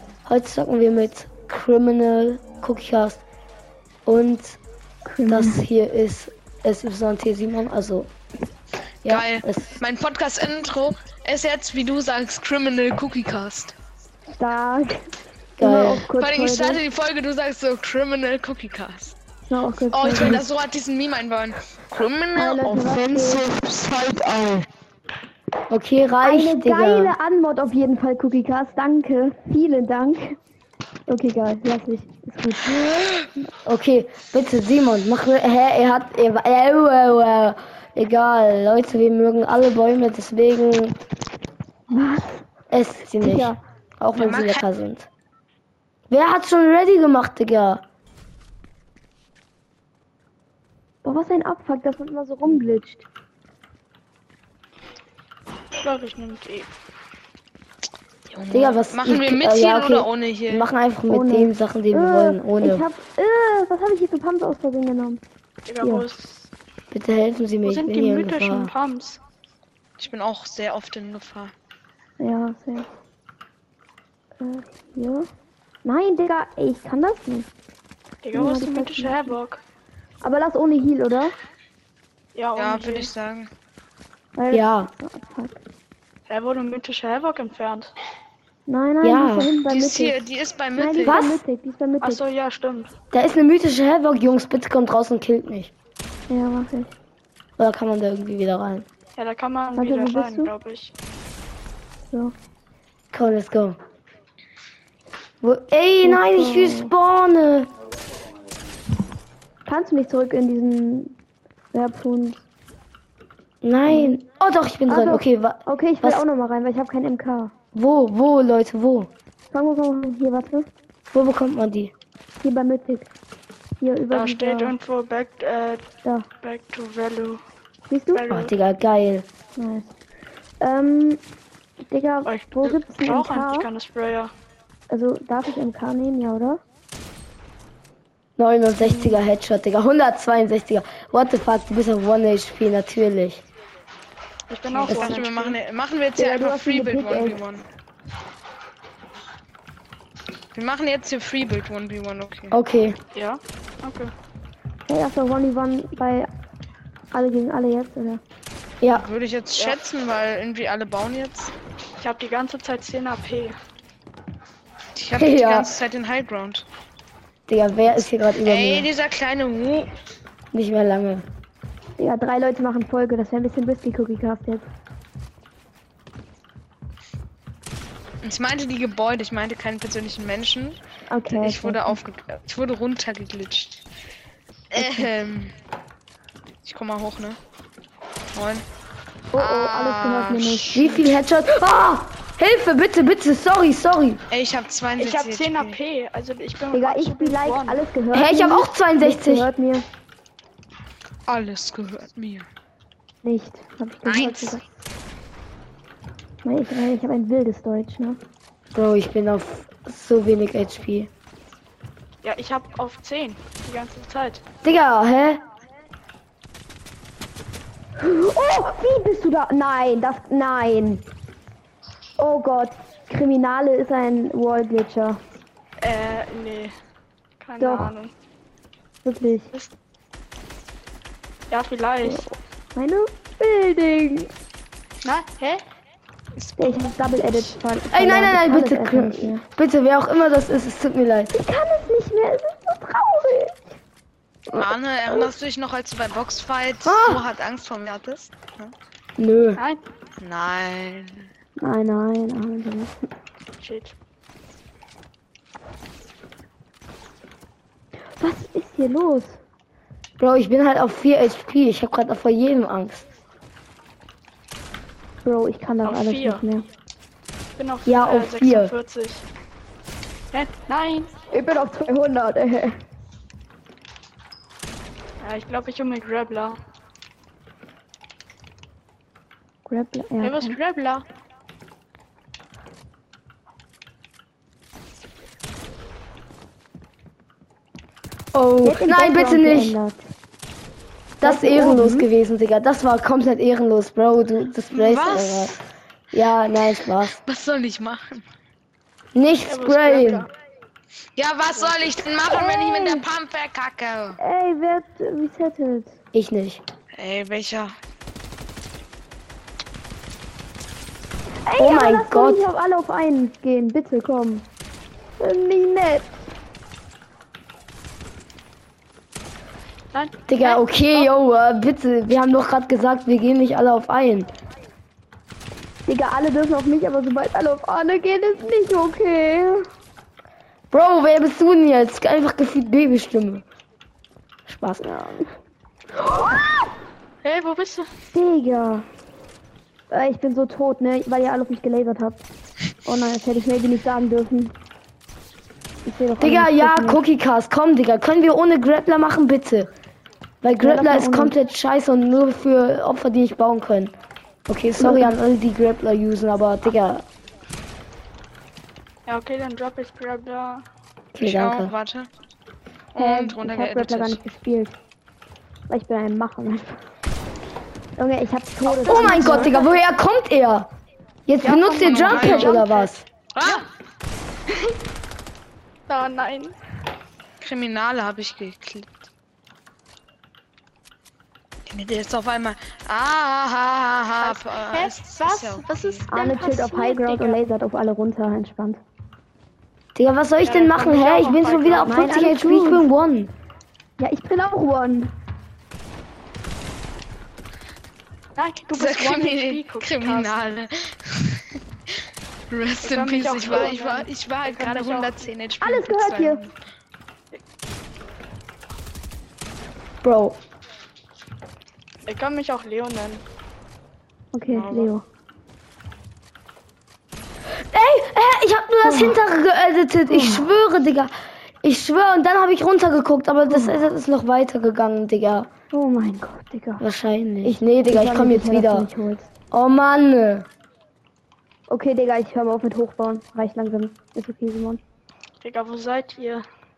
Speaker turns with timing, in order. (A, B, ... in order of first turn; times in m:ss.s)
0:00.3-0:03.2 A
0:04.1-0:04.6 A
0:05.1-0:05.6 B
0:05.3-0:08.1 A
0:09.0-0:13.7 C
0:09.1-0:09.8 A
0:14.4-0:16.8 B
0:15.6-0:16.1 A
0:16.2-0:19.2 C
0:19.5-0:20.4 B
0:19.9-0:24.7 C
0:22.4-0:23.4 B
0:25.7-0:27.2 A
0:26.2-0:30.4 B
0:31.1-0:33.3 B
0:33.6-0:41.0 A
0:41.9-0:42.4 B
0:42.7-0:45.1 A
0:43.2-0:43.6 B
0:44.2-0:44.6 C
0:46.1-0:47.8 A
0:51.0-0:53.0 B
0:55.8-0:56.7 D
0:58.3-1:00.7 C
0:58.5-1:02.8 A
1:01.1-1:05.2 B
1:05.7-1:06.5 D
1:06.9-1:08.7 A
1:07.6-1:09.2 D
1:10.0-1:11.5 C
1:12.2-1:12.9 B
1:14.4-1:15.3 B
1:15.8-1:17.5 B
1:18.2-1:19.6 D
1:18.3-1:19.4 B
1:20.2-1:21.4 B
1:22.4-1:23.1 D
1:22.6-1:23.5 C
1:24.4-1:25.6 B
1:24.5-1:24.9 A
1:26.3-1:27.9 D
1:28.7-1:32.2 B
1:29.0-1:29.5 A
1:29.6-1:31.2 C
1:31.0-1:31.4 A
1:32.0-1:32.9 D
1:33.1-1:35.7 A
1:36.3-1:36.9 B
1:37.6-1:38.9 A
1:39.2-1:40.9 D
1:39.8-1:40.5 B
1:42.1-1:42.4 B
1:43.1-1:43.8 A
1:45.4-1:47.7 A
1:46.0-1:46.9 B
1:49.7-1:51.1 B
1:51.7-1:52.4 B
1:53.6-1:56.2 A
1:53.9-1:54.2 B
1:54.9-1:57.5 B
1:57.7-1:59.1 A
1:59.5-2:00.7 B
2:01.1-2:01.9 A
2:02.4-2:03.1 B
2:03.8-2:04.7 B
2:04.1-2:05.9 D
2:06.4-2:07.4 D
2:07.9-2:08.3 B
2:08.1-2:08.5 D
2:08.3-2:09.3 A
2:09.6-2:09.9 B
2:10.6-2:11.2 B
2:11.9-2:13.7 B
2:12.3-2:14.3 D
2:14.9-2:16.6 B
2:18.4-2:23.4 A
2:18.8-2:19.2 D
2:24.5-2:25.6 D
2:24.7-2:27.6 C
2:26.2-2:27.6 B
2:30.5-2:32.6 C
2:32.5-2:33.0 A
2:33.1-2:34.1 D
2:34.9-2:36.3 B
2:37.1-2:38.2 B
2:38.9-2:41.5 C
2:42.0-2:43.6 D
2:45.0-2:46.6 C
2:45.1-2:45.7 A
2:47.5-2:48.9 A
2:47.9-2:49.9 C
2:50.5-2:51.2 A
2:52.0-2:54.7 B
2:58.2-3:00.8 C
3:01.1-3:02.0 B
3:01.3-3:03.8 C
3:04.7-3:05.5 C
3:04.8-3:05.1 B
3:06.6-3:07.4 C
3:08.3-3:08.6 C
3:09.3-3:10.8 B
3:09.4-3:11.0 C
3:10.7-3:14.2 A
3:14.3-3:15.8 C
3:15.0-3:17.9 D
3:16.7-3:19.8 B
3:18.1-3:19.5 A
3:21.3-3:22.5 C
3:23.2-3:24.6 B
3:24.1-3:24.6 C
3:26.4-3:28.2 B
3:28.7-3:31.1 A
3:32.2-3:34.4 D
3:34.6-3:35.4 A
3:38.0-3:41.0 B
3:42.2-3:45.2 B
3:45.8-3:46.7 D
3:47.4-3:48.1 D
3:47.6-3:47.9 B
3:49.0-3:49.5 B
3:51.5-3:52.2 D
3:52.0-3:54.3 B
3:55.0-3:55.6 D
3:56.4-3:57.5 C
3:56.6-3:59.4 B
3:57.9-4:01.3 A
4:01.3-4:03.6 B
4:04.5-4:05.3 B
4:04.5-4:08.7 C
4:06.8-4:07.2 A
4:09.2-4:09.6 A
4:09.6-4:09.8 D
4:10.2-4:11.3 C
4:11.6-4:13.0 B
4:13.6-4:14.0 D
4:18.2-4:19.4 B
4:20.2-4:23.1 A
4:25.2-4:26.7 B
4:25.8-4:26.4 D
4:27.6-4:29.2 D
4:27.9-4:28.7 A
4:30.3-4:31.1 D
4:31.3-4:32.8 B
4:35.2-4:36.6 D
4:39.7-4:40.6 B
4:40.2-4:41.0 D
4:48.3-4:49.8 A
4:48.6-4:50.1 B
4:51.2-4:55.6 A
4:51.2-4:52.1 B
4:54.7-4:55.6 C
4:56.1-4:57.2 A
4:57.1-4:58.2 C
4:59.1-5:00.3 A
4:59.5-5:00.3 D
5:01.2-5:04.2 C
5:01.6-5:02.0 D
5:02.3-5:03.1 B
5:04.2-5:06.0 B
5:06.1-5:06.6 A
5:07.0-5:07.8 C
5:11.5-5:14.5 B
5:11.6-5:12.4 A
5:15.2-5:16.2 B
5:19.9-5:21.1 D
5:20.3-5:24.3 A
5:25.9-5:29.7 B
5:30.7-5:33.4 A
5:34.5-5:34.9 A
5:34.8-5:35.4 B
5:36.0-5:36.7 B
5:37.2-5:37.9 D
5:38.1-5:38.9 B
5:39.9-5:42.2 B
5:42.8-5:44.6 B
5:45.8-5:47.0 B
5:46.2-5:49.7 A
5:50.4-5:53.9 A
5:50.6-5:51.3 B
5:54.5-5:57.0 A
5:54.8-5:55.1 B
5:59.1-6:00.7 D
6:01.2-6:01.7 A
6:01.2-6:02.1 C
6:03.0-6:04.2 C
6:03.0-6:04.8 B
6:05.7-6:06.8 B
6:08.0-6:09.7 B
6:08.7-6:09.5 D
6:08.8-6:10.7 A
6:11.3-6:13.0 A
6:11.4-6:12.9 D
6:11.8-6:12.6 C
6:12.5-6:12.9 B
6:13.3-6:13.7 C
6:14.5-6:14.8 D
6:15.9-6:16.6 D
6:17.4-6:19.1 C
6:21.7-6:26.1 C
6:24.2-6:27.4 D
6:26.1-6:28.8 B
6:30.0-6:33.3 A
6:30.4-6:32.2 D
6:31.8-6:32.9 B
6:34.0-6:35.1 B
6:38.4-6:40.4 D
6:38.7-6:41.5 C
6:42.5-6:46.5 C
6:42.8-6:45.2 D
6:45.6-6:46.5 B
6:50.0-6:50.4 A
6:52.1-6:53.2 D
6:54.3-6:55.0 B
6:54.5-6:54.9 C
6:57.7-7:05.5 A
6:58.8-6:59.2 B
7:00.1-7:00.5 B
7:03.5-7:03.8 B
7:05.7-7:06.8 B
7:06.8-7:08.9 A
7:07.4-7:09.3 B
7:09.5-7:10.5 A
7:11.7-7:14.8 B
7:15.4-7:16.5 D